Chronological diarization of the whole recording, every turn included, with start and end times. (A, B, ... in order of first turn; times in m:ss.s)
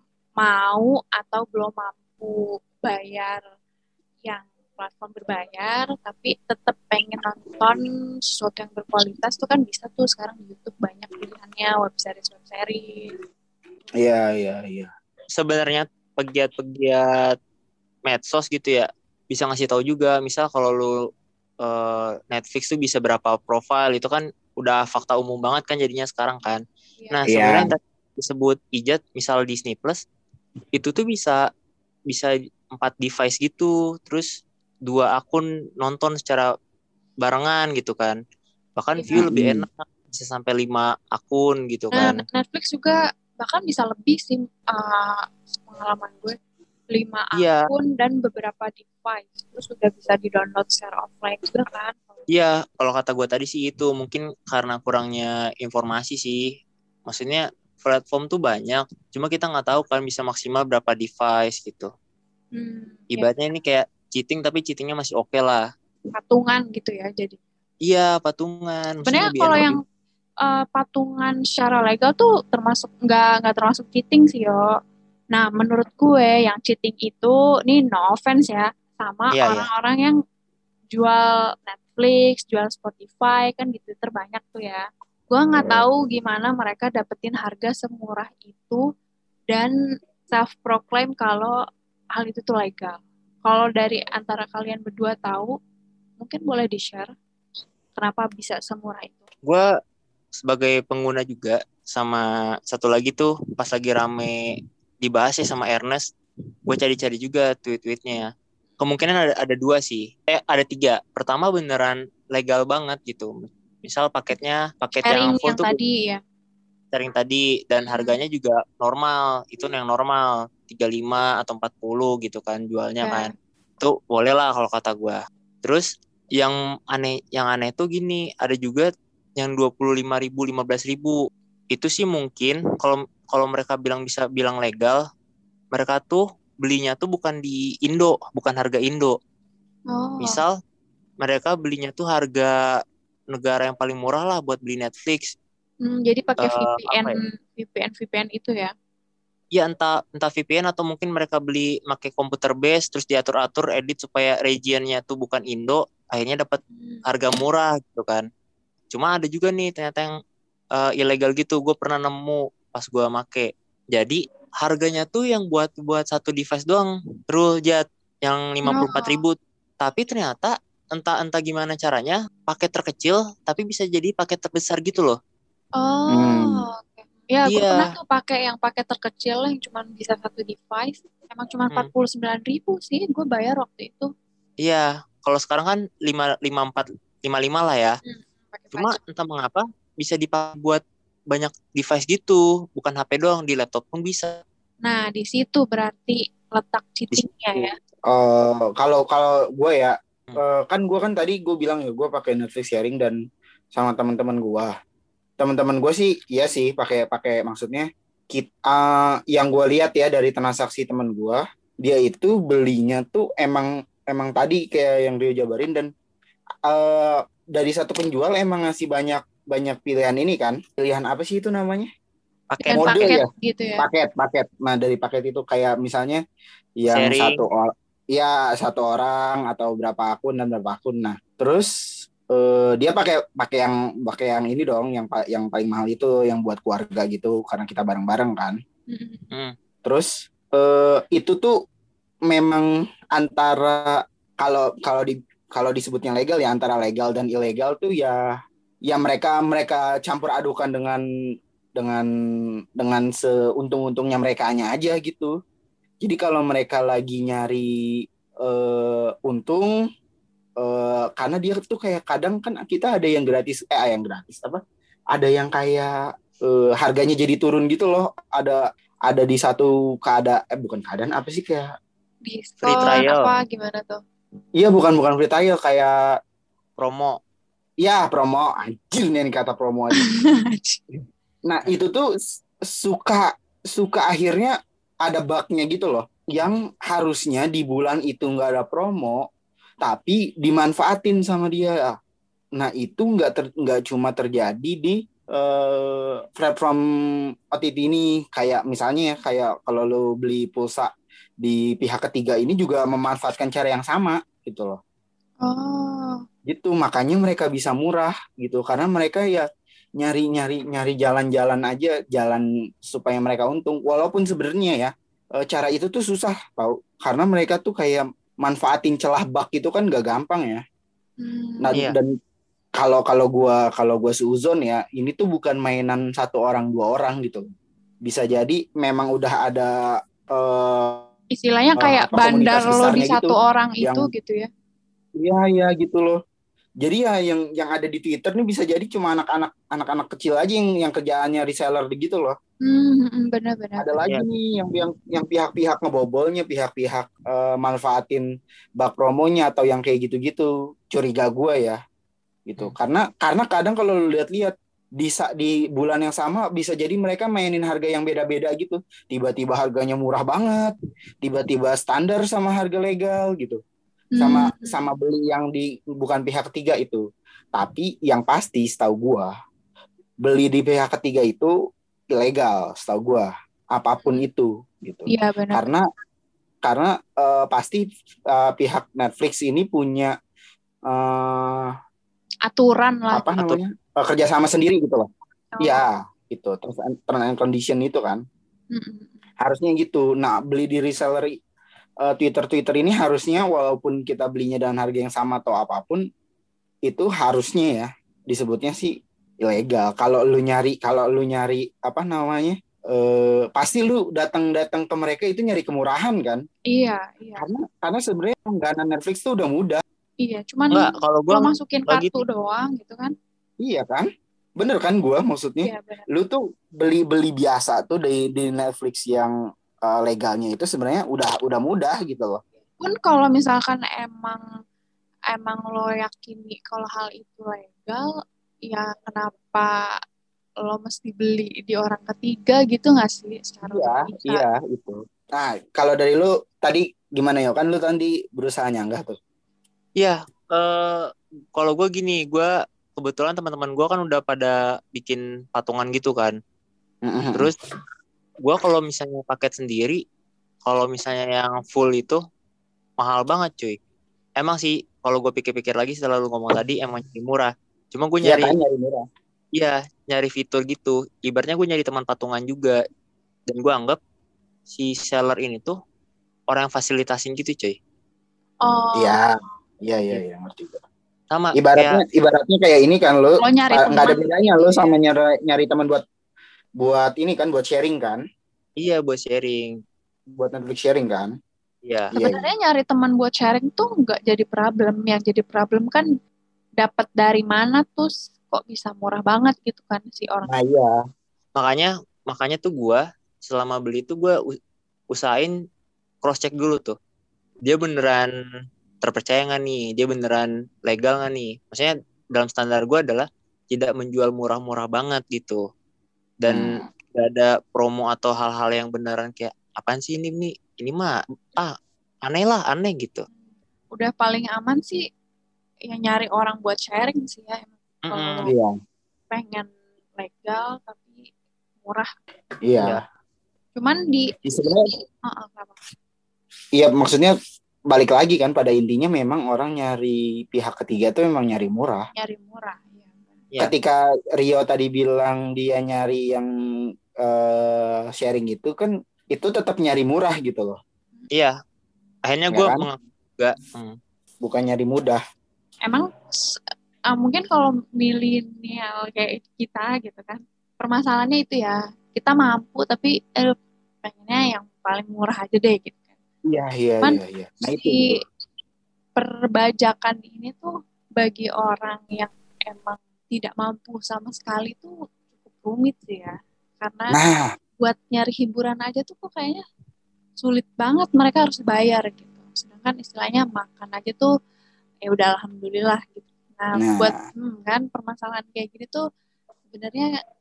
0:00.4-0:03.4 A
0:04.2-0:13.1 A
0:14.0-0:14.9 B
0:15.4-0:17.4 C
0:18.0-0:20.9 C
0:21.6-0:30.0 C
0:27.3-0:27.7 B
0:30.7-0:31.4 C
0:32.1-0:36.5 C
0:37.2-0:38.2 C
0:38.8-0:42.2 C
0:39.0-0:39.2 A
0:39.2-0:39.7 B
0:41.9-0:46.4 A
0:46.9-0:52.2 A
0:47.4-0:47.6 C
0:52.3-0:56.4 C
0:57.1-1:01.9 C
1:02.5-1:03.3 A
1:03.1-1:05.6 C
1:06.1-1:07.4 A
1:07.8-1:09.8 C
1:09.0-1:09.8 A
1:10.4-1:14.6 A
1:15.3-1:20.1 A
1:19.3-1:19.7 C
1:20.9-1:28.8 A
1:30.3-1:31.5 A
1:32.1-1:35.6 A
1:36.2-1:37.1 A
1:38.0-1:39.2 A
1:40.4-1:44.4 C
1:45.0-1:46.1 C
1:46.7-1:48.3 C
1:48.8-1:53.3 C
1:53.8-1:55.8 C
1:55.0-1:56.2 A
1:56.9-2:11.2 C
1:57.9-1:58.2 A
2:03.0-2:03.3 A
2:11.7-2:15.0 C
2:15.7-2:19.2 C
2:19.9-2:20.4 A
2:20.2-2:20.5 C
2:21.2-2:22.5 C
2:23.3-2:25.2 C
2:25.8-2:28.7 A
2:26.4-2:27.2 C
2:29.5-2:38.3 C
2:36.7-2:37.0 A
2:38.9-2:40.2 C
2:40.7-2:55.2 C
2:48.6-2:49.2 A
2:55.8-3:04.1 A
2:56.1-2:56.6 B
2:57.4-2:57.9 C
3:04.6-3:08.0 C
3:08.0-3:09.0 A
3:08.7-3:14.4 C
3:14.8-3:17.7 A
3:18.1-3:23.2 B
3:23.7-3:24.7 B
3:25.4-3:35.9 B
3:36.7-3:41.9 B
3:42.5-3:43.1 C
3:42.6-3:43.8 A
3:42.7-3:43.3 B
3:43.8-3:46.2 B
3:46.8-3:51.7 B
3:46.9-3:47.4 C
3:52.3-3:58.6 B
3:58.9-3:59.3 A
3:59.8-4:01.5 B
4:02.3-4:08.2 B
4:08.9-4:11.0 B
4:11.8-4:12.0 B
4:12.8-4:15.3 B
4:16.0-4:17.7 B
4:18.4-4:19.7 B
4:20.6-4:24.6 B
4:25.1-4:25.9 B
4:26.4-4:31.6 B
4:32.2-4:34.0 A
4:32.6-4:33.3 C
4:34.6-4:35.9 B
4:36.8-4:37.2 C
4:37.8-4:40.0 B
4:40.0-4:40.8 A
4:41.4-4:49.2 B
4:49.8-4:52.0 B
4:52.6-4:56.8 B
4:57.5-5:04.8 B
5:05.4-5:06.2 A
5:06.4-5:09.4 B
5:10.0-5:20.6 B
5:21.2-5:21.8 A
5:21.6-5:22.1 B
5:22.8-5:27.4 B
5:28.0-5:29.7 B
5:30.3-5:31.1 B
5:31.3-5:34.5 A
5:31.8-5:34.1 B
5:35.2-5:36.2 B
5:36.8-5:42.3 B
5:42.6-5:44.0 A
5:43.8-5:48.2 B
5:48.8-5:51.8 B
5:52.5-6:03.6 B
6:04.1-6:04.8 A
6:04.2-6:07.0 B
6:07.5-6:09.3 B
6:10.2-6:11.5 B
6:12.1-6:15.8 B
6:15.1-6:15.7 A
6:16.6-6:20.1 B
6:20.9-6:21.7 B
6:22.5-6:23.4 A
6:23.1-6:25.1 B
6:25.5-6:25.8 A
6:25.6-6:28.2 B
6:28.7-6:29.2 A
6:29.4-6:31.3 B
6:32.0-6:36.0 B
6:36.8-6:46.4 B
6:46.7-6:47.4 A
6:47.4-6:49.8 B
6:50.2-6:53.1 A
6:50.7-6:52.2 C
6:53.6-6:59.3 B
6:55.6-6:56.0 A
6:59.8-7:02.4 B
7:02.8-7:04.4 A
7:05.3-7:08.1 A
7:08.7-7:09.7 A
7:10.6-7:14.4 A
7:13.6-7:19.2 B
7:20.0-7:26.4 C
7:27.0-7:27.5 B
7:28.4-7:30.0 C
7:30.6-7:32.2 C
7:33.0-7:33.8 C
7:34.4-7:38.6 C
7:38.2-7:39.0 B
7:39.5-7:42.8 C
7:43.5-7:44.0 C
7:44.7-7:45.7 C
7:46.5-7:47.8 C
7:48.6-7:49.2 A
7:48.9-7:49.3 B
7:49.8-7:50.8 B
7:51.3-7:52.0 C
7:51.5-7:56.0 B
7:53.4-7:54.9 A
7:56.8-7:58.2 B
7:58.8-7:59.8 C
8:00.4-8:01.3 B
8:01.8-8:02.1 C
8:02.1-8:02.5 B
8:02.2-8:06.1 A
8:06.8-8:10.5 A
8:10.5-8:10.9 B
8:11.6-8:14.3 C
8:15.1-8:15.5 C
8:16.2-8:17.0 C
8:17.6-8:18.3 C
8:19.0-8:25.6 C
8:26.4-8:31.7 C
8:26.5-8:26.8 B
8:32.2-8:33.3 C
8:33.9-8:35.0 A
8:35.9-8:38.5 A
8:38.1-8:38.5 C
8:38.5-8:38.7 B
8:39.3-8:41.2 A
8:41.8-8:42.1 A
8:42.6-8:43.0 B
8:43.7-8:44.3 A
8:44.4-8:44.9 B
8:45.2-8:45.8 A
8:46.8-8:47.3 B
8:47.9-8:52.0 B
8:52.2-8:53.3 A
8:53.6-8:56.5 B
8:57.2-9:00.8 B
9:02.2-9:04.0 C
9:02.5-9:02.8 B
9:04.4-9:05.2 B
9:05.8-9:06.5 A
9:07.1-9:16.0 A
9:16.5-9:18.2 B
9:17.0-9:18.0 A
9:19.2-9:27.2 A
9:27.1-9:27.5 B
9:27.8-9:29.6 A
9:30.4-9:34.3 A
9:35.0-9:39.0 A
9:36.8-9:37.2 B
9:39.7-9:40.1 A